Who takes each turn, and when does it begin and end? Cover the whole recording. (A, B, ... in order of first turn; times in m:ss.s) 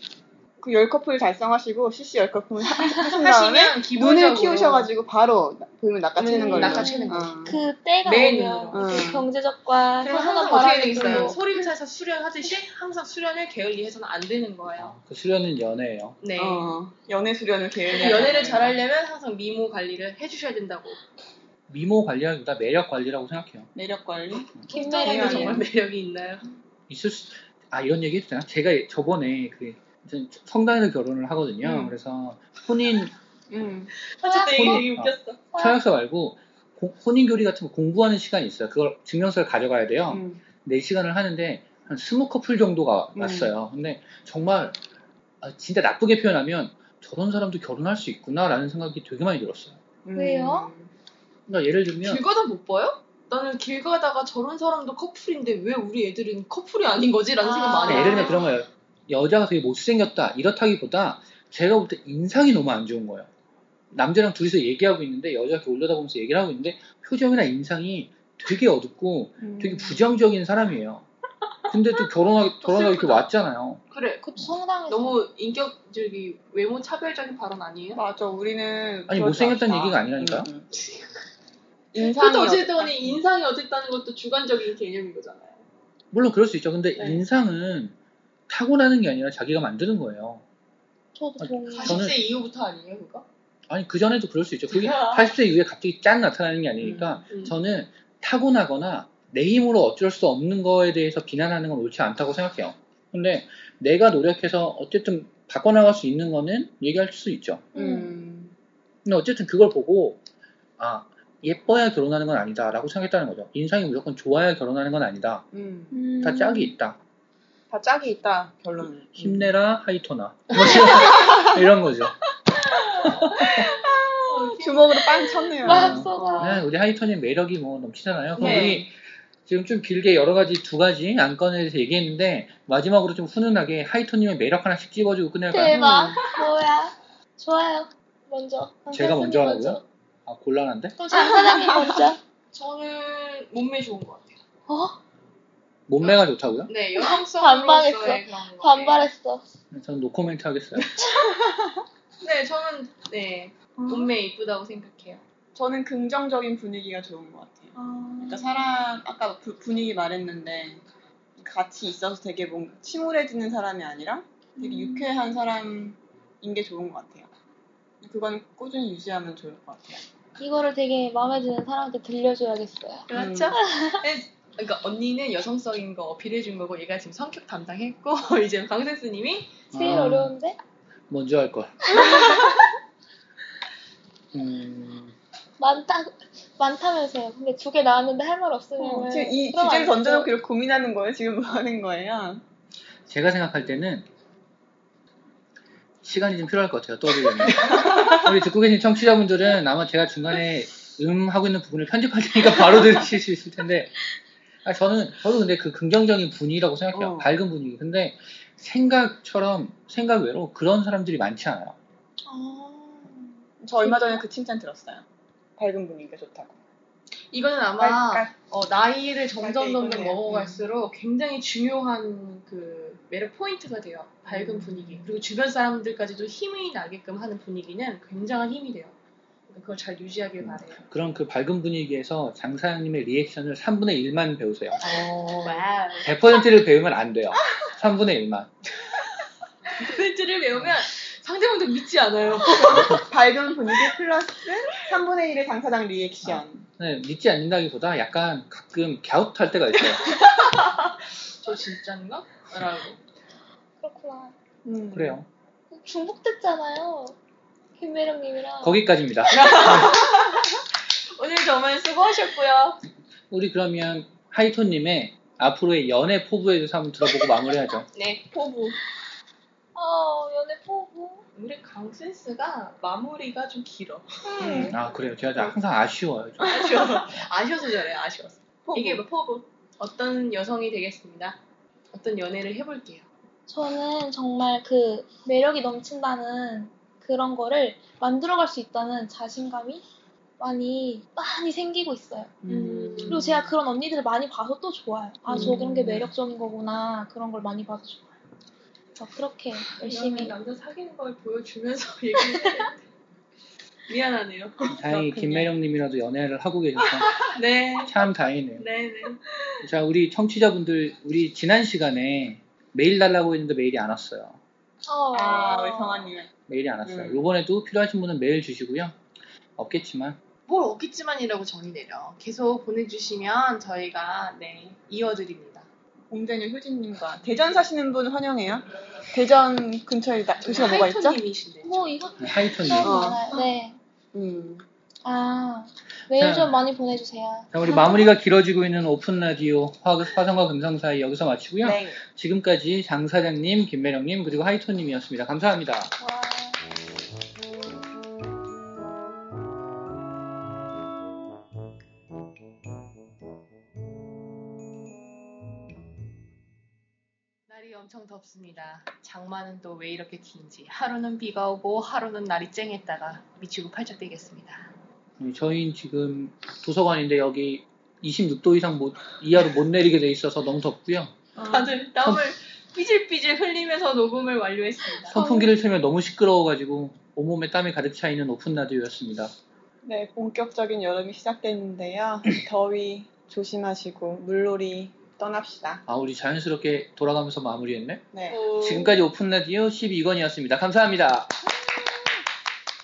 0:00.6-0:07.6 A
0:03.0-0:04.9 B
0:06.2-0:09.2 B
0:06.4-0:11.4 C
0:08.7-0:09.2 A
0:10.0-0:15.0 B
0:10.9-0:11.4 A
0:14.9-0:16.2 D
0:16.2-0:16.7 B
0:16.4-0:18.7 A
0:17.8-0:21.0 B
0:21.7-0:23.7 D
0:23.7-0:25.6 A
0:24.7-0:26.5 B
0:24.7-0:25.6 C
0:26.9-0:33.1 D
0:31.6-0:32.0 A
0:33.5-0:33.9 A
0:34.1-0:35.8 B
0:34.2-0:34.9 C
0:34.5-0:44.8 D
0:40.1-0:40.4 A
0:43.2-0:43.5 A
0:45.4-0:49.8 D
0:50.0-0:50.9 A
0:50.1-0:50.7 C
0:51.5-0:52.2 D
0:52.0-0:58.4 B
0:57.4-0:58.4 C
0:57.8-1:03.3 D
1:03.9-1:11.1 D
1:09.4-1:10.0 A
1:11.7-1:13.8 D
1:12.6-1:13.3 B
1:13.9-1:14.2 B
1:14.2-1:15.2 C
1:14.9-1:18.0 B
1:17.9-1:20.6 A
1:19.1-1:20.5 D
1:20.7-1:21.3 B
1:21.9-1:23.2 A
1:22.0-1:25.6 B
1:26.1-1:27.9 D
1:27.0-1:27.2 B
1:28.5-1:30.4 D
1:31.1-1:32.0 C
1:31.4-1:32.2 D
1:31.7-1:33.2 B
1:33.7-1:47.7 D
1:34.7-1:35.4 B
1:36.8-1:37.5 B
1:47.7-1:48.1 C
1:47.7-1:48.5 A
1:49.0-1:50.2 D
1:50.8-1:55.4 D
1:55.5-1:56.0 A
1:55.9-1:56.7 C
1:56.2-1:57.0 D
1:57.7-1:59.5 A
1:59.1-2:02.2 D
2:00.6-2:00.9 B
2:03.2-2:03.7 B
2:03.4-2:03.7 D
2:03.6-2:06.6 A
2:04.3-2:05.2 B
2:05.2-2:06.6 C
2:05.6-2:08.9 D
2:08.4-2:08.8 B
2:08.4-2:08.9 A
2:09.4-2:15.8 D
2:15.5-2:19.8 C
2:15.7-2:16.3 A
2:18.9-2:21.0 D
2:21.0-2:22.2 C
2:21.1-2:21.9 B
2:22.5-2:24.4 B
2:24.7-2:25.0 C
2:25.9-2:26.7 D
2:26.0-2:29.1 B
2:27.0-2:29.4 C
2:29.7-2:31.0 D
2:31.2-2:31.8 A
2:32.2-2:35.2 B
2:33.8-2:34.1 A
2:35.5-2:40.8 A
2:37.8-2:38.6 C
2:41.4-2:47.3 A
2:44.6-2:45.1 C
2:48.0-2:50.0 A
2:50.4-2:54.0 C
2:53.1-2:59.6 B
2:53.1-2:53.6 A
2:59.7-3:00.3 D
2:59.7-3:00.6 C
3:01.1-3:02.2 D
3:01.9-3:02.5 C
3:04.3-3:05.1 D
3:05.6-3:10.3 C
3:08.8-3:12.4 A
3:13.1-3:14.0 D
3:16.0-3:24.1 D
3:24.6-3:31.8 D
3:26.9-3:27.3 A
3:32.2-3:34.2 C
3:33.6-3:35.0 A
3:35.6-3:36.6 A
3:37.3-3:48.9 B
3:37.8-3:38.3 A
3:39.4-3:40.6 A
3:44.3-3:44.9 A
3:49.5-3:50.8 B
3:50.4-3:54.8 D
3:54.8-3:56.2 B
3:56.0-3:58.5 D
3:58.8-4:03.0 B
4:02.5-4:06.6 A
4:06.2-4:10.2 D
4:10.1-4:13.0 B
4:13.8-4:14.3 C
4:14.6-4:15.2 A
4:14.9-4:15.3 D
4:15.7-4:17.2 C
4:17.8-4:18.8 C
4:18.6-4:20.0 D
4:19.3-4:22.8 B
4:23.3-4:27.9 D
4:27.9-4:28.2 B
4:28.3-4:28.8 A
4:29.7-4:31.2 C
4:31.4-4:34.7 B
4:34.3-4:34.7 A
4:34.4-4:37.0 D
4:36.4-4:41.4 B
4:38.6-4:39.0 A
4:41.9-4:43.0 B
4:43.5-4:49.8 C
4:50.4-4:52.4 C
4:52.4-4:53.3 A
4:52.5-4:53.4 B
4:53.1-4:58.0 C
4:55.3-4:56.1 A
4:55.3-4:55.6 B
4:59.0-5:00.4 C
4:59.8-5:02.8 B
5:03.9-5:05.5 B
5:04.7-5:07.3 D
5:05.0-5:05.4 A
5:07.1-5:09.5 B
5:07.8-5:08.6 D
5:09.6-5:14.4 D
5:14.8-5:16.1 C
5:15.1-5:16.3 A
5:16.5-5:19.0 D
5:16.8-5:17.2 A
5:19.6-5:20.2 D
5:20.5-5:25.7 B
5:26.1-5:31.2 A
5:30.4-5:31.9 B
5:31.6-5:33.8 C
5:32.2-5:33.2 D
5:32.8-5:33.3 A
5:34.1-5:34.6 A
5:35.0-5:37.5 C
5:36.1-5:36.5 D
5:37.5-5:45.9 D
5:41.6-5:42.0 A
5:46.0-5:46.6 C
5:57.5-6:04.7 B
6:05.2-6:11.3 D
6:11.4-6:15.2 B
6:12.0-6:12.3 D
6:15.1-6:19.3 D
6:15.1-6:15.5 C
6:19.8-6:25.8 A
6:25.9-6:31.5 D
6:28.1-6:28.5 A
6:28.3-6:29.0 B